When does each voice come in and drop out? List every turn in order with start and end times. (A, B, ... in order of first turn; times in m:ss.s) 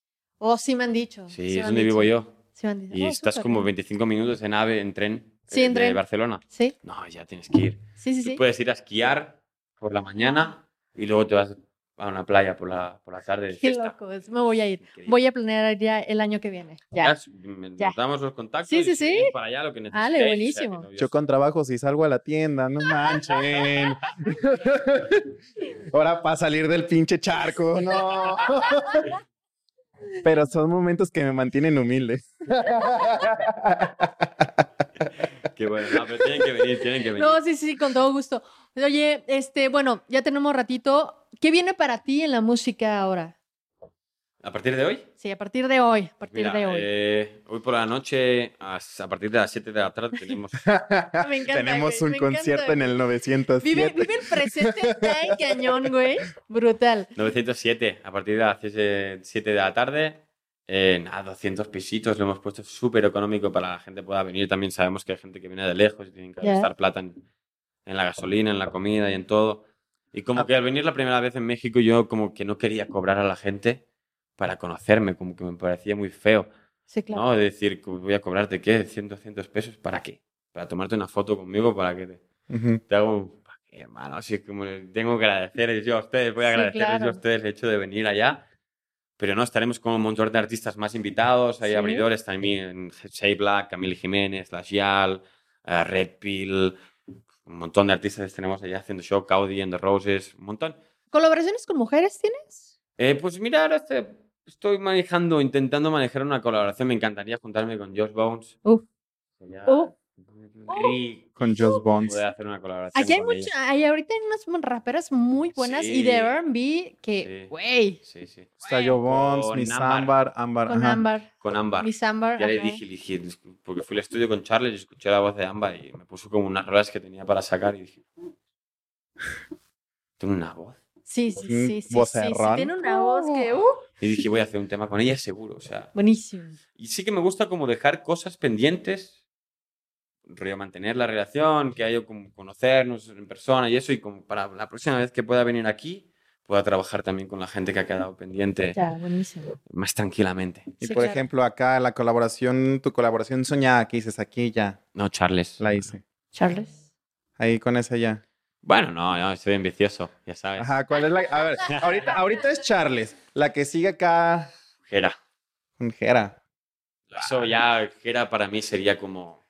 0:00.4-0:03.7 A
0:01.3-0:02.3 B
0:02.9-0:14.1 B
0:05.5-0:06.7 A
0:08.0-0:08.4 A
0:10.2-0:10.5 A
0:13.6-0:17.2 A
0:14.8-0:15.2 B
0:17.0-0:21.2 B
0:18.6-0:19.3 A
0:19.9-0:20.8 A
0:21.0-0:25.2 C
0:25.9-0:29.0 C
0:28.5-0:29.0 A
0:30.2-0:34.6 C
0:35.4-0:37.4 B
0:35.8-0:36.5 C
0:37.2-0:43.3 A
0:44.4-0:45.1 B
0:45.2-0:46.9 A
0:46.3-0:50.7 B
0:50.6-0:55.9 C
0:51.2-0:52.9 A
0:53.6-0:57.1 A
0:57.2-1:07.2 B
1:06.4-1:06.7 A
1:07.8-1:13.8 B
1:14.4-1:16.5 B
1:16.9-1:17.2 A
1:17.1-1:22.2 B
1:22.5-1:22.8 C
1:22.9-1:28.4 B
1:26.4-1:27.2 A
1:29.2-1:36.8 B
1:31.6-1:32.0 A
1:37.4-1:40.8 B
1:41.1-1:42.6 A
1:43.0-1:48.6 B
1:49.4-1:53.5 B
1:49.6-1:49.9 A
1:50.7-1:51.0 A
1:51.4-1:52.2 C
1:51.5-1:51.8 A
1:52.9-1:58.0 A
1:55.6-1:56.3 B
1:57.2-2:00.1 B
1:58.6-2:01.1 C
2:00.7-2:02.8 A
2:01.4-2:08.0 B
2:10.2-2:10.8 B
2:11.1-2:13.8 A
2:11.4-2:13.5 C
2:14.0-2:15.9 B
2:15.9-2:16.6 A
2:16.8-2:19.2 B
2:20.3-2:28.8 B
2:28.7-2:29.6 A
2:29.7-2:30.8 B
2:30.8-2:31.2 A
2:30.8-2:34.8 C
2:34.9-2:35.9 B
2:35.6-2:36.0 C
2:36.3-2:36.8 A
2:37.4-2:38.2 C
2:38.6-2:40.7 B
2:40.6-2:44.5 C
2:41.7-2:42.2 B
2:44.9-2:45.1 B
2:45.8-2:46.4 C
2:47.1-2:49.4 B
2:47.2-2:47.5 C